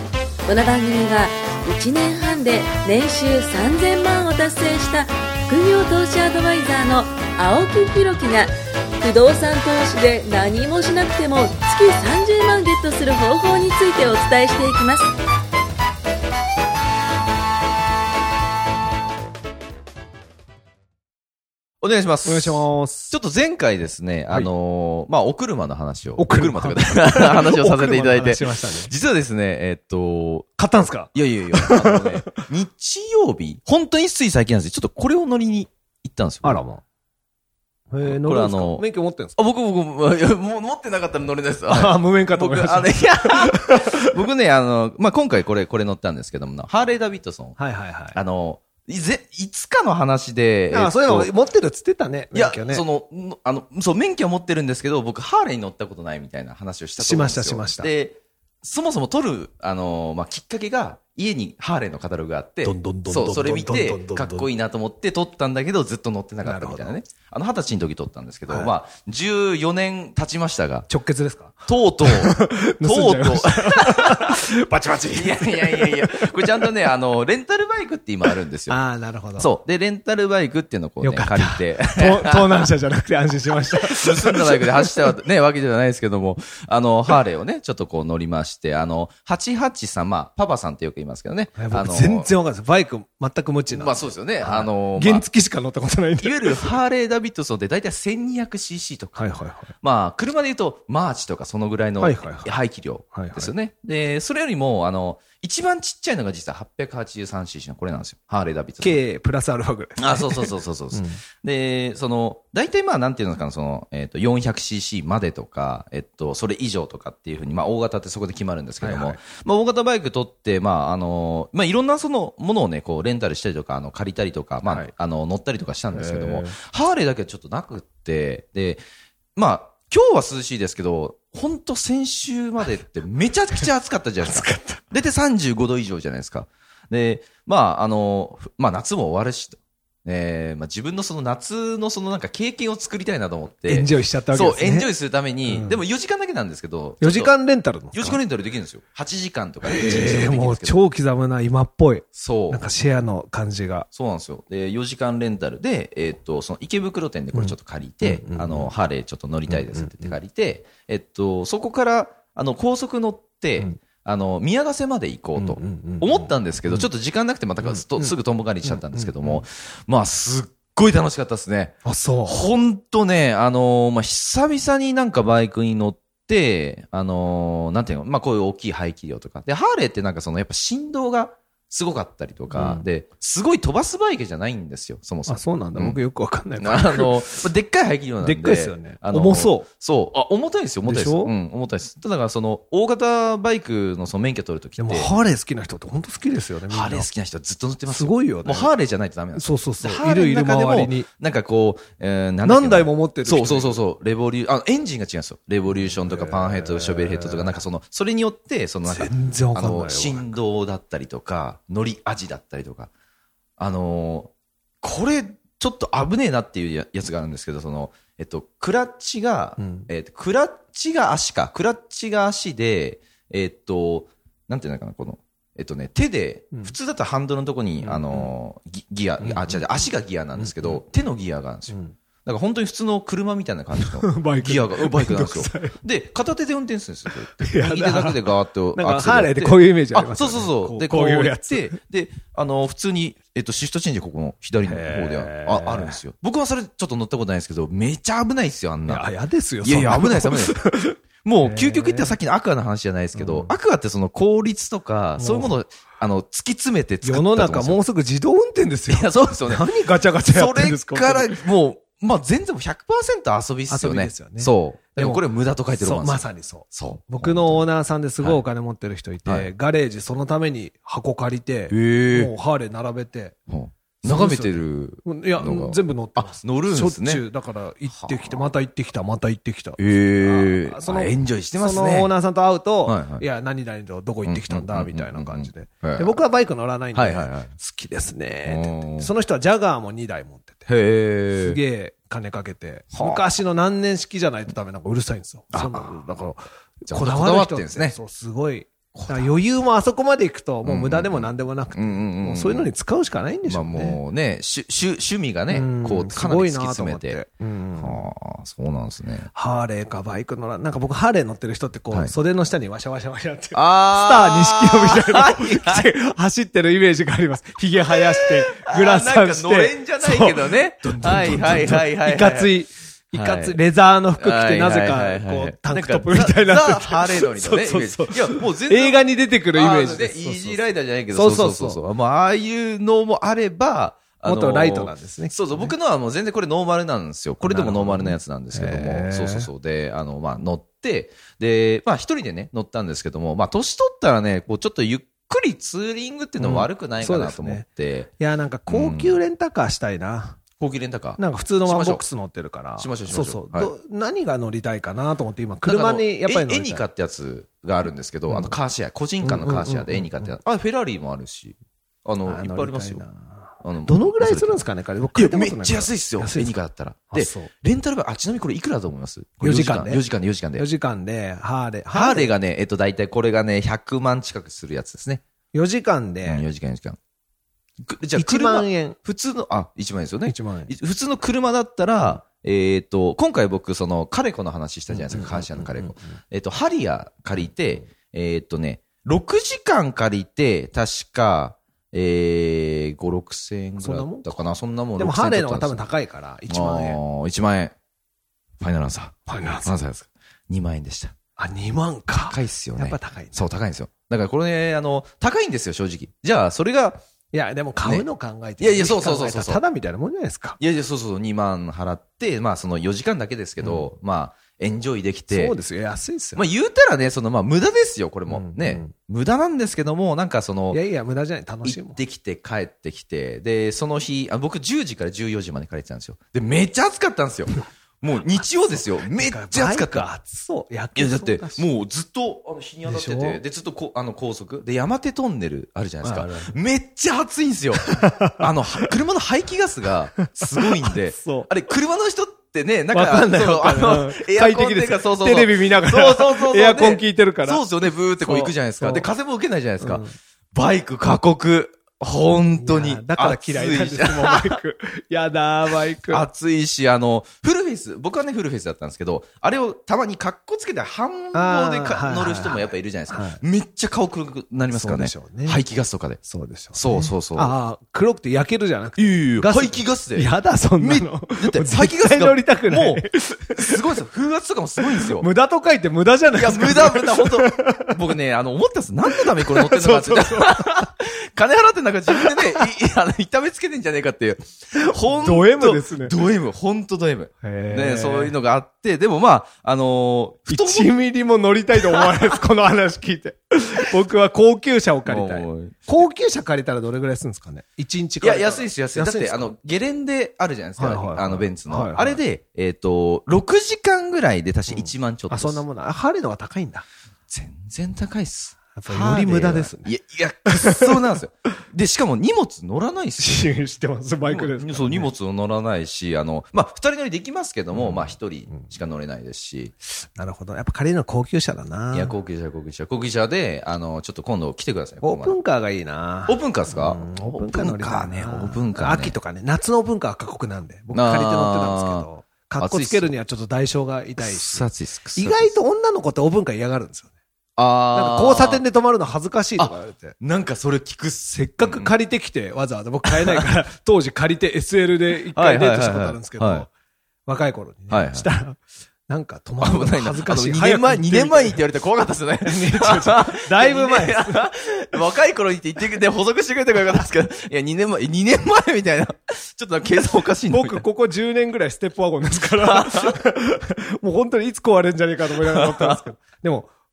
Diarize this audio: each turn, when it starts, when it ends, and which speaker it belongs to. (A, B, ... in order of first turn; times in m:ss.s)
0:00.4-0:15.1 A
0:21.8-0:30.5 B
0:22.2-0:23.1 C
0:26.2-0:28.9 C
0:30.6-0:32.4 C
0:31.1-0:36.6 B
0:36.4-0:36.8 C
0:37.9-0:39.4 C
0:38.0-0:38.8 B
0:39.4-0:47.6 B
0:41.7-0:44.0 C
0:47.6-0:48.2 C
0:48.1-0:51.3 B
0:50.7-0:52.8 C
0:52.3-1:10.9 B
0:57.0-0:57.9 C
1:02.6-1:04.5 C
1:06.4-1:07.0 C
1:08.5-1:08.7 C
1:10.9-1:16.7 C
1:11.7-1:14.4 B
1:15.1-1:18.8 B
1:18.7-1:19.5 C
1:19.4-1:22.7 B
1:21.0-1:25.1 C
1:23.8-1:32.3 B
1:31.6-1:36.7 C
1:33.7-1:35.2 B
1:36.2-1:49.0 B
1:39.2-1:39.7 C
1:42.0-1:42.6 C
1:43.1-1:43.5 C
1:48.8-1:51.2 C
1:50.0-2:08.8 B
1:58.8-1:59.2 C
2:04.6-2:04.9 C
2:05.9-2:06.6 C
2:09.4-2:27.3 B
2:14.2-2:14.8 C
2:23.6-2:24.9 C
2:25.4-2:25.8 C
2:27.0-2:28.2 C
2:27.9-2:30.8 B
2:29.6-2:33.9 C
2:32.1-2:32.6 B
2:33.9-3:06.0 B
2:37.3-2:38.7 C
2:39.5-2:40.2 C
2:45.4-2:46.9 C
2:47.6-2:49.4 C
2:51.8-2:52.4 C
3:02.5-3:02.8 C
3:05.3-3:07.4 C
3:06.6-3:15.1 B
3:08.2-3:09.7 C
3:10.8-3:11.3 C
3:14.8-3:17.1 C
3:16.7-3:32.9 B
3:17.9-3:18.7 C
3:19.3-3:21.1 C
3:22.4-3:23.8 C
3:25.7-3:27.5 C
3:28.8-3:30.4 C
3:33.6-4:09.1 B
3:39.6-3:39.9 C
3:47.8-3:48.4 C
3:49.2-3:50.8 C
3:51.7-3:52.0 C
3:53.8-3:55.8 C
3:57.3-3:58.2 C
3:58.7-4:01.8 C
4:04.6-4:06.0 C
4:08.9-4:12.2 C
4:09.6-4:10.6 B
4:11.2-4:17.8 B
4:13.1-4:13.5 C
4:15.2-4:15.6 C
4:17.0-4:21.4 C
4:18.9-4:27.6 B
4:23.7-4:25.2 C
4:25.8-4:33.4 C
4:29.2-4:29.5 B
4:31.7-4:32.3 B
4:33.5-4:37.2 B
4:34.0-4:50.7 C
4:37.9-4:38.5 B
4:39.8-4:42.1 B
4:42.8-4:43.2 B
4:44.2-4:46.2 B
4:46.9-4:47.5 B
4:48.4-4:49.1 B
4:50.7-4:51.6 B
4:51.3-5:04.0 C
4:52.9-4:53.2 B
4:55.5-4:56.2 B
4:56.9-4:58.0 B
4:58.9-4:59.3 B
5:00.6-5:02.7 B
5:03.5-5:07.2 B
5:05.5-5:08.0 C
5:07.8-5:09.3 B
5:09.3-5:31.8 C
5:13.5-5:15.9 B
5:17.8-5:22.5 B
5:23.1-5:23.6 B
5:24.2-5:48.1 B
5:34.2-5:35.7 C
5:37.4-5:39.5 C
5:46.4-5:47.6 C
5:48.2-5:50.4 C
5:48.7-5:49.2 B
5:50.6-5:52.0 B
5:51.2-5:56.8 C
5:52.8-5:53.7 B
5:55.6-6:03.1 B
5:58.3-5:58.6 C
5:59.2-6:00.4 C
6:02.2-6:06.6 C
6:03.6-6:04.6 B
6:05.1-6:10.6 B
6:07.1-6:07.5 C
6:09.4-6:12.3 C
6:11.9-6:15.2 B
6:15.5-6:16.4 C
6:16.2-6:17.0 B
6:17.8-6:35.9 B
6:18.2-6:19.0 C
6:20.2-6:20.7 C
6:24.9-6:26.2 C
6:33.8-6:37.0 C
6:36.5-6:37.7 B
6:38.6-6:41.1 B
6:39.3-6:39.8 C
6:41.4-6:43.5 C
6:42.1-6:47.0 B
6:47.3-6:50.6 C
6:48.6-6:49.6 B
6:50.6-6:55.6 B
6:53.6-6:53.9 C
6:55.3-6:56.4 C
6:56.4-7:00.8 B
6:58.3-6:58.9 C
7:00.7-7:02.0 C
7:01.6-7:10.1 B
7:08.4-7:11.6 C
7:10.9-7:34.6 B
7:12.8-7:13.4 C
7:16.0-7:16.5 C
7:17.8-7:18.5 C
7:20.6-7:21.5 C
7:22.9-7:27.6 C
7:28.2-7:29.1 C
7:29.8-7:30.2 C
7:32.5-7:36.3 C
7:36.1-7:46.2 B
7:41.3-7:43.4 C
7:44.6-7:45.6 C
7:46.2-7:53.8 C
7:46.7-7:47.5 B
7:49.0-7:55.3 B
7:54.8-7:58.0 C
7:56.3-8:10.9 B
7:59.0-8:00.8 C
8:02.1-8:02.7 C
8:05.1-8:06.1 C
8:07.4-8:08.4 C
8:10.5-8:19.5 C
8:15.0-8:15.8 B
8:18.2-8:25.6 B
8:20.8-8:22.2 C
8:24.7-8:26.8 C
8:27.3-8:33.5 B
8:28.7-8:29.9 C
8:30.5-8:30.8 C
8:33.2-8:35.1 C
8:34.2-8:39.7 B
8:37.7-8:38.7 C
8:39.9-8:42.1 C
8:41.9-8:45.4 B
8:45.0-8:57.1 C
8:46.3-8:49.2 B
8:50.9-8:52.1 B
8:52.6-8:53.1 B
8:54.2-8:55.5 B
8:57.6-8:58.6 B
8:57.9-9:00.2 C
8:59.6-9:01.9 B
9:01.3-9:06.7 C
9:03.1-9:03.4 B
9:05.3-9:06.6 B
9:07.2-9:11.6 C
9:07.9-9:08.3 B
9:09.6-9:20.8 B
9:12.4-9:14.5 C
9:20.5-9:26.7 C
9:22.6-9:23.2 B
9:25.3-9:26.0 B